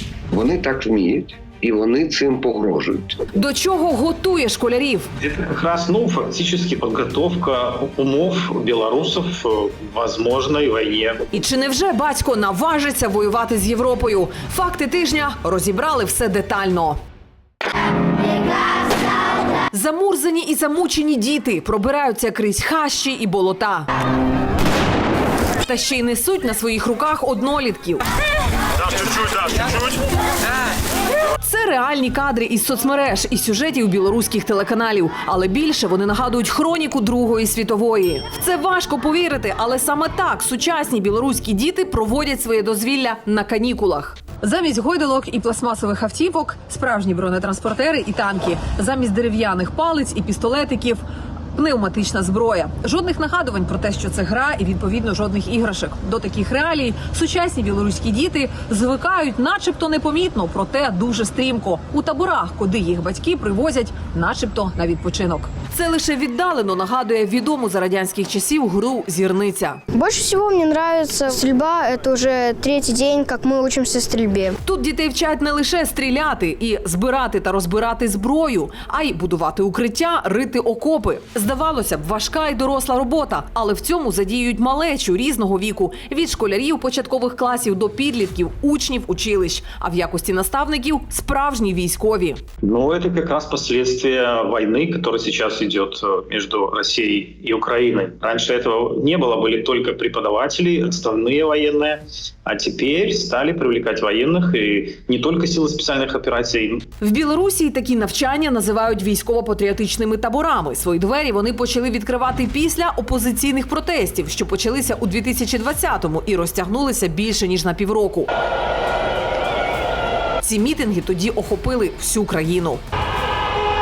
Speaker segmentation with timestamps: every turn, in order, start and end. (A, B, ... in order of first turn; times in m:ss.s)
0:00.3-0:03.2 A
0:03.3-0:05.1 B
0:05.2-0:11.2 C
0:11.3-0:17.0 B
0:19.7-0:23.9 B
0:25.6-0:28.0 B
0:29.0-0:29.7 C
0:31.4-0:51.0 B
0:51.5-1:09.8 B
1:09.9-1:14.6 D
1:14.6-1:32.4 B
1:32.6-1:46.9 C
1:47.0-1:58.3 B
2:00.4-2:02.8 B